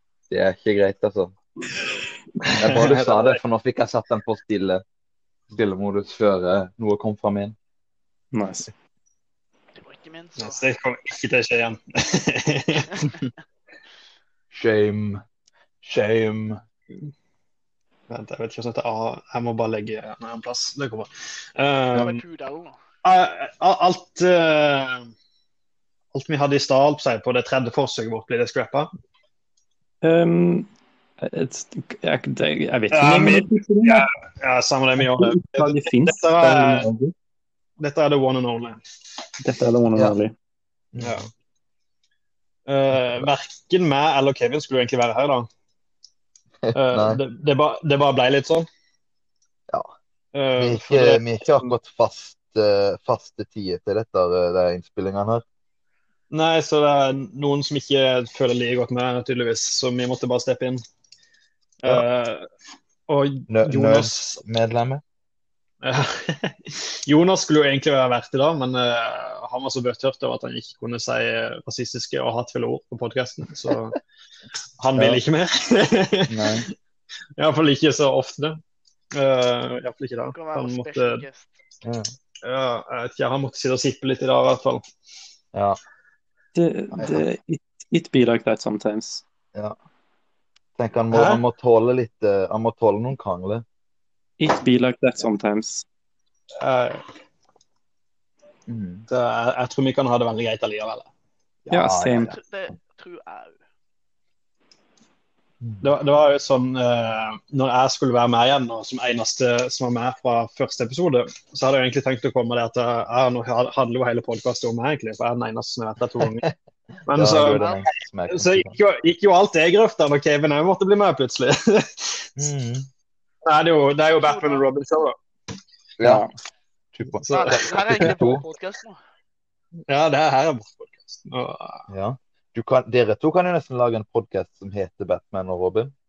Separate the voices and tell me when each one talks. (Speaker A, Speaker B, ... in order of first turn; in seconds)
Speaker A: 0.3-1.3, 2.5-4.8, 5.5-7.5, 14.5-15.2, 15.8-16.6, 41.0-41.2, 42.9-43.3, 46.6-47.2, 50.6-55.4, 63.5-65.0, 75.0-75.2, 76.3-76.7, 81.8-82.1, 85.5-85.8, 86.9-87.2, 90.8-93.6, 98.7-99.1, 101.7-102.4, 105.6-105.9, 116.2-116.5, 117.1-118.8, 122.4-122.9, 126.0-126.2, 127.0-128.4, 131.9-135.9
Speaker B: 2.4-3.4, 10.4-13.1, 18.1-22.2, 23.0-25.1, 26.1-28.9, 32.9-36.9, 37.8-38.8, 41.0-41.3, 42.7-45.5, 46.7-48.7, 50.3-51.7, 56.3-60.8, 61.8-62.5, 63.1-64.4, 65.8-74.0, 74.8-76.7, 77.4-78.6, 79.1-81.2, 82.4-84.8, 91.1-91.4, 96.6-97.0, 99.1-101.1, 105.8-116.5, 117.1-122.3, 123.5-125.2, 127.2-128.2, 129.9-131.8
Speaker C: 8.3-8.7, 30.0-30.7, 31.2-34.1, 35.0-37.1, 39.4-40.3, 86.5-89.2, 94.4-95.8, 101.7-102.3, 126.0-126.3
Speaker D: 9.8-10.6, 21.9-22.8, 80.3-81.5, 102.2-103.6, 124.2-124.7, 127.3-129.0